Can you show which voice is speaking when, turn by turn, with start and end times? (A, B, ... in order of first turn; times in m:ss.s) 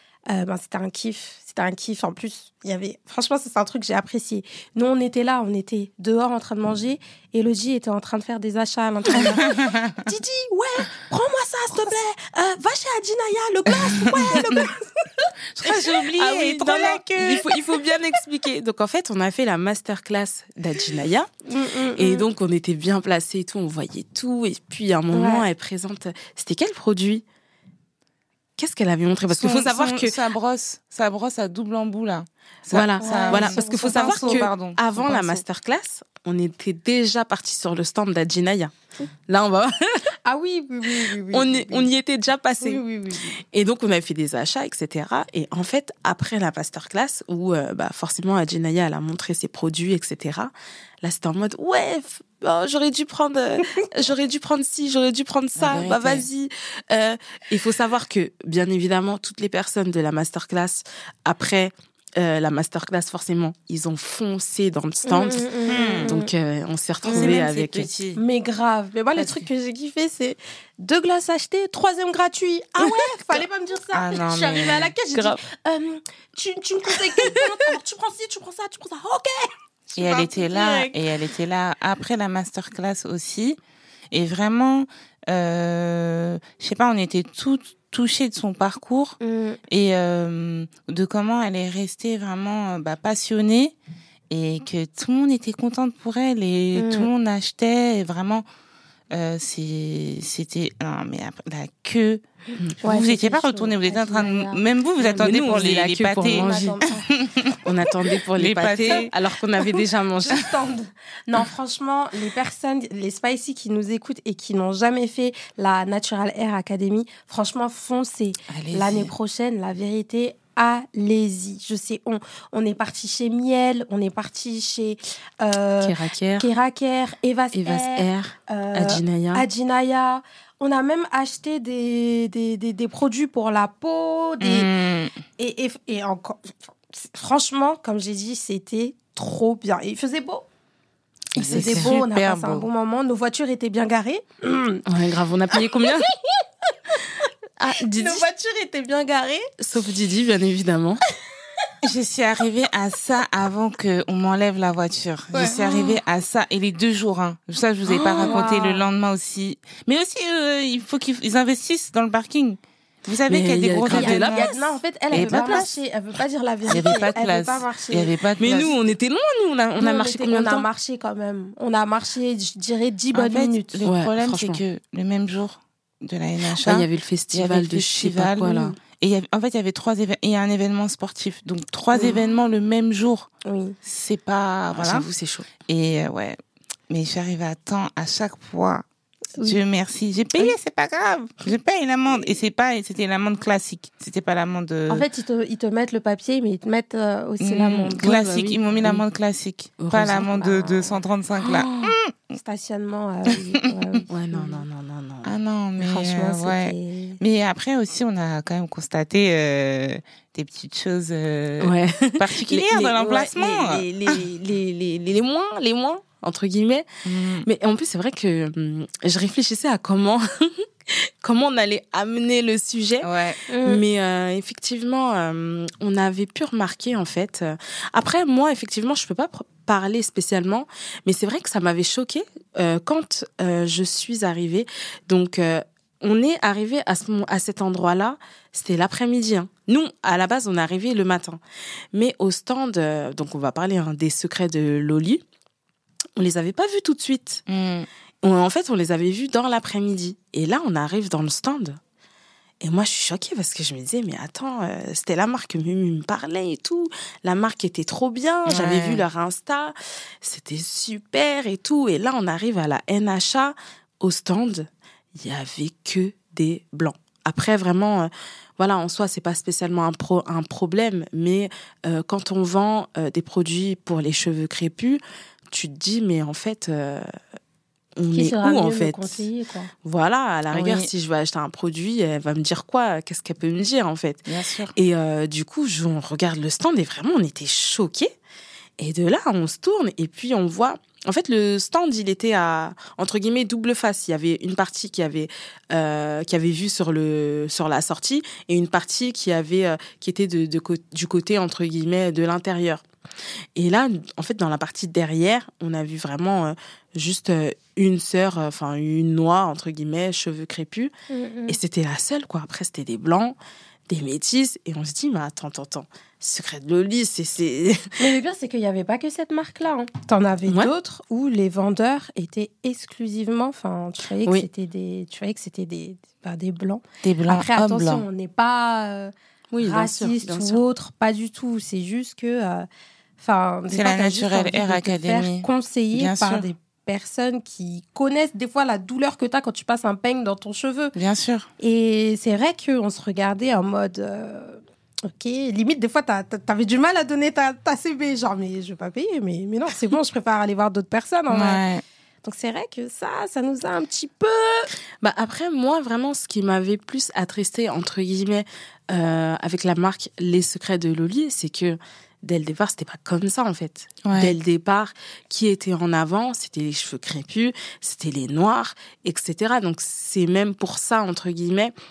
0:00.3-0:15.3 A
0:09.1-0:10.0 B
0:14.0-0:14.6 B
0:15.5-0:17.4 B
0:16.1-0:21.3 C
0:21.4-0:22.2 A
0:22.0-0:27.2 C
0:25.1-0:25.4 A
0:28.6-0:30.2 C
0:29.3-0:35.4 B
0:32.7-0:38.7 C
0:33.0-0:34.5 A
0:39.3-0:40.1 C
0:40.2-0:41.9 A
0:41.3-0:42.8 C
0:42.6-0:43.4 A
0:43.4-0:50.5 C
0:51.0-1:07.9 C
0:55.6-0:56.2 B
1:05.0-1:06.3 A
1:05.7-1:06.2 B
1:07.0-1:08.2 B
1:07.1-1:07.5 A
1:08.2-1:21.0 A
1:09.2-1:09.5 B
1:12.8-1:13.4 C
1:13.9-1:14.9 B
1:15.1-1:15.4 C
1:17.2-1:17.4 C
1:20.0-1:23.6 B
1:24.1-1:33.7 B
1:29.2-1:29.6 A
1:34.3-1:38.4 B
1:36.8-1:37.1 A
1:39.1-1:42.2 B
1:42.8-1:46.5 B
1:42.8-1:45.7 A
1:45.2-1:46.8 C
1:46.2-1:47.1 A
1:47.1-1:47.6 B
1:47.6-1:50.5 C
1:48.3-1:49.1 B
1:49.6-2:14.7 A
1:58.5-1:59.1 B
2:05.8-2:06.5 C
2:07.5-2:09.4 C
2:14.4-2:15.2 B
2:15.4-2:20.4 A
2:21.3-2:24.8 A
2:21.4-2:22.7 B
2:21.4-2:21.9 C
2:24.9-2:26.1 C
2:25.5-2:27.1 A
2:27.6-2:28.2 C
2:27.7-2:29.5 A
2:29.6-2:31.0 C
2:31.8-2:44.5 B
2:35.3-2:35.8 A
2:35.4-2:35.9 C
2:37.9-2:38.8 A
2:38.0-2:38.4 C
2:43.3-2:44.6 C
2:43.9-2:48.7 A
2:45.1-2:45.7 B
2:45.2-2:45.6 C
2:46.7-2:48.7 B
2:48.4-2:50.6 C
2:49.8-2:53.9 A
2:53.1-3:03.3 B
2:53.8-2:54.6 C
2:56.6-2:58.7 C
2:58.4-2:58.7 A
3:03.4-3:03.8 A
3:03.8-3:05.0 B
3:04.7-3:05.5 C
3:05.6-3:06.4 B
3:06.9-3:08.8 B
3:09.4-3:09.6 A
3:09.4-3:15.0 B
3:14.9-3:18.1 A
3:17.4-3:22.4 B
3:18.0-3:19.0 C
3:19.8-3:20.3 C
3:20.2-3:21.0 A
3:21.4-3:22.0 C
3:22.3-3:24.6 A
3:24.1-3:25.3 C
3:25.2-3:34.2 B
3:25.8-3:27.2 A
3:31.6-3:36.8 C
3:37.0-3:37.5 B
3:37.4-3:43.1 C
3:43.0-3:43.4 B
3:43.5-3:43.8 A
3:43.6-4:01.4 C
4:01.9-4:05.2 C
4:06.2-4:07.4 C
4:07.5-4:07.9 B
4:08.2-4:11.8 C
4:12.6-4:37.1 C
4:18.4-4:19.0 B
4:38.0-4:39.2 C
4:38.1-4:39.7 A
4:39.8-4:48.1 C
4:40.5-4:40.9 B
4:44.2-4:44.7 B
4:48.8-5:02.8 C
5:03.6-5:10.9 C
5:11.1-5:11.6 A
5:11.5-5:13.4 C
5:13.9-5:18.1 C
5:18.0-5:32.7 A
5:20.5-5:20.7 C
5:27.0-5:28.0 B
5:29.5-5:30.6 C
5:33.2-5:40.9 A
5:33.7-5:36.4 B
5:40.9-5:41.5 B
5:41.6-5:51.6 A
5:51.3-5:51.8 B
5:52.2-5:54.7 A
5:55.0-6:11.7 C
6:04.0-6:04.4 B